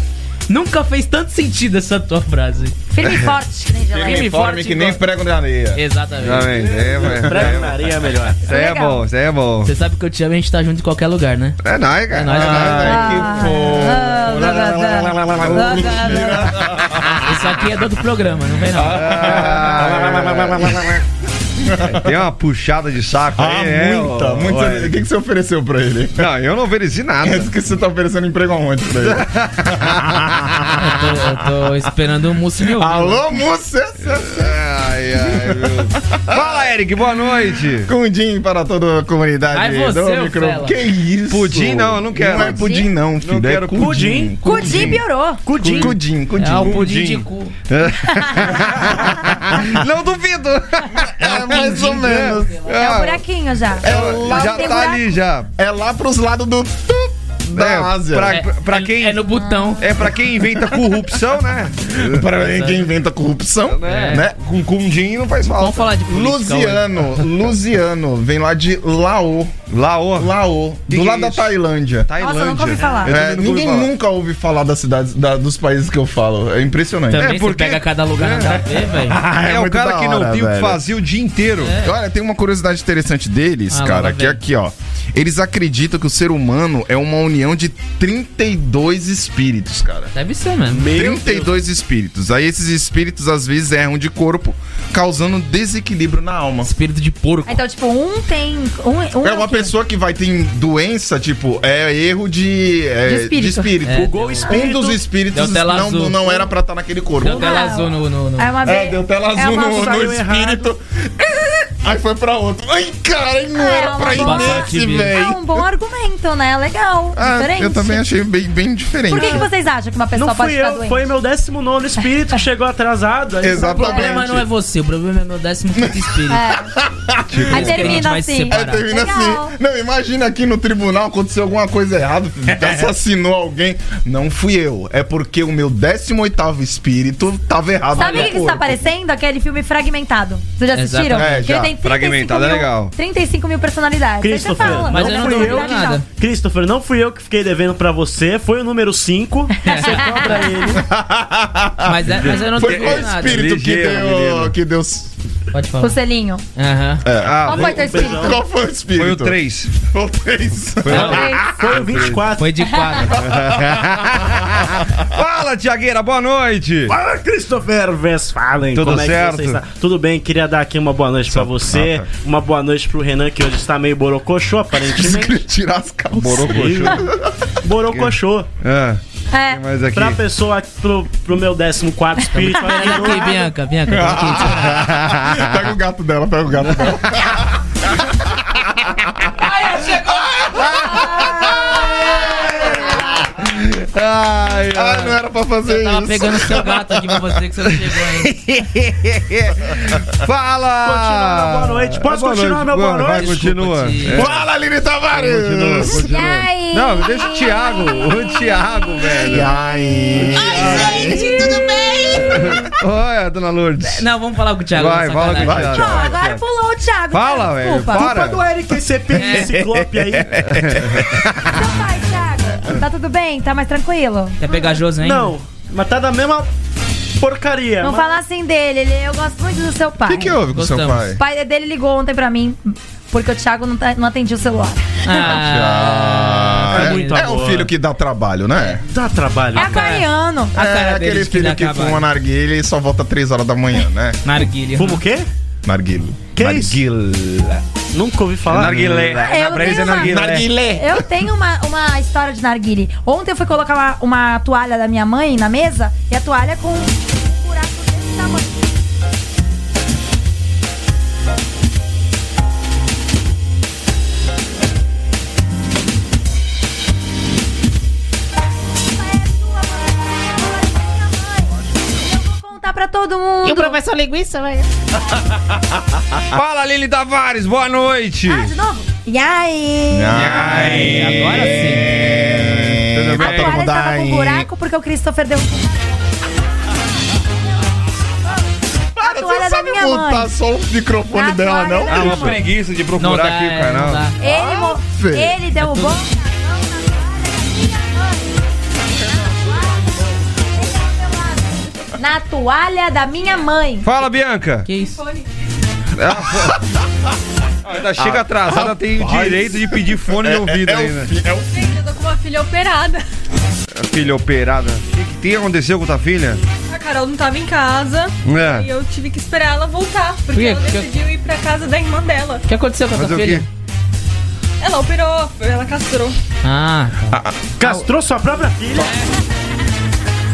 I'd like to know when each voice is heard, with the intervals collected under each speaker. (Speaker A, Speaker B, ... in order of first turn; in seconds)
Speaker A: 0.5-2.8, 4.0-5.0, 5.7-6.6, 9.6-11.6, 12.1-13.1, 17.2-19.4, 30.7-33.2, 39.5-40.8, 46.4-47.5, 51.5-52.5, 58.3-59.9, 63.9-64.2, 65.4-67.2, 77.1-79.2, 81.6-82.0, 83.7-84.4, 90.1-90.9, 96.7-97.6, 103.8-104.6, 105.3-106.5, 107.2-108.6, 114.0-115.2, 123.7-126.4, 127.5-128.8, 140.7-141.4, 144.9-146.1, 149.6-150.6, 151.8-153.4, 155.5-156.0, 156.6-157.1, 160.9-161.3, 162.4-163.2, 182.4-184.8, 189.4-190.9, 195.7-198.3, 203.2-204.3, 210.3-212.5, 213.8-215.7, 219.1-219.6, 224.4-225.3, 230.5-231.1, 235.0-237.3, 239.6-242.1, 244.2-245.0, 273.4-274.7, 280.1-281.9, 293.0-294.2, 295.6-296.0, 304.7-305.0, 320.3-320.9, 322.5-323.5, 326.4-327.9, 328.8-329.2
Speaker B: 2.9-4.3, 8.5-9.0, 12.8-16.5, 42.3-42.9, 44.4-45.4, 52.8-55.1, 72.2-73.2, 97.5-99.7, 103.0-103.7, 107.3-109.6, 113.5-118.0, 119.1-121.0, 123.6-124.0, 126.3-126.7, 127.5-129.5, 137.9-146.0, 149.7-150.6, 155.8-156.4, 157.5-158.4, 161.0-161.4, 179.3-179.6, 205.9-209.1, 209.7-211.7, 215.8-218.1, 221.5-224.7, 227.8-230.4, 231.2-234.8, 239.5-240.6, 249.2-258.6, 268.9-273.8, 278.3-280.2, 283.2-286.0, 289.0-290.3, 291.1-292.4, 294.2-303.9
Speaker C: 3.0-3.4, 6.2-7.9, 8.4-9.7, 11.6-13.1, 15.2-16.1, 18.8-21.0, 21.9-25.0, 26.2-27.5, 29.0-30.7, 34.1-37.9, 41.3-44.0, 44.5-44.9, 45.6-46.0, 46.5-53.2, 53.8-55.5, 57.5-59.2, 59.8-62.7, 63.7-65.9, 69.7-70.3, 70.9-71.5, 72.1-73.9, 77.2-81.8, 127.3-128.0, 132.6-132.8, 141.5-142.9, 152.5-154.5, 157.2-157.9, 158.9-159.7, 160.8-162.2, 163.1-166.9, 168.7-169.6, 171.3-172.1, 176.2-177.1, 177.9-180.2, 184.5-185.5, 186.8-187.2, 191.4-195.2, 198.2-204.5, 205.1-209.5, 210.2-211.1, 212.2-214.1, 214.7-216.4, 217.1-218.5, 219.2-219.4, 220.4-221.7, 246.4-247.6, 248.5-250.5, 276.3-278.5, 280.1-283.6, 291.9-294.0, 303.8-304.7, 306.0-306.6, 307.6-311.1, 313.7-316.4, 318.2-318.7, 322.9-323.4
Speaker D: 3.9-5.8, 12.3-17.5, 18.7-21.0, 21.6-22.1, 23.4-26.3, 27.2-30.9, 32.6-34.6, 35.2-36.7, 37.8-45.0, 45.6-46.9, 51.0-52.7, 53.8-54.9, 55.6-58.4, 60.2-61.0, 62.0-64.4, 66.1-69.5, 70.2-72.1, 73.0-77.4, 79.0-80.8, 81.8-90.1, 90.8-96.7, 99.2-107.6, 108.6-115.7, 117.2-119.5, 123.4-124.5, 125.8-126.1, 126.8-138.8, 141.1-141.7, 150.8-155.1, 157.0-161.4, 163.2-164.7, 174.9-177.3, 183.9-193.3, 194.7-197.4, 204.1-206.1, 209.2-211.6, 212.3-212.6, 215.3-216.2, 220.4-221.1, 230.0-231.2, 235.1-238.8, 240.6-244.2, 245.7-246.2, 249.9-251.1, 279.9-284.5, 289.0-292.4, 294.2-295.4, 299.0-299.9, 306.2-306.6, 308.0-311.8
Speaker E: 6.5-8.5, 43.8-44.4, 45.4-46.0, 90.7-91.6, 103.9-105.0, 109.4-110.7, 119.1-119.5, 120.2-124.0, 144.2-150.8, 157.7-158.4, 161.5-162.5, 166.9-175.4, 176.2-177.0, 177.6-178.5, 179.9-183.5, 200.8-203.5, 217.9-220.6, 225.0-226.5, 227.2-228.2, 236.7-237.7, 238.9-239.7, 244.8-245.3, 246.3-246.8, 247.9-249.3, 327.6-329.0
Speaker F: 305.0-305.3, 311.5-313.0, 316.7-322.5, 324.6-326.2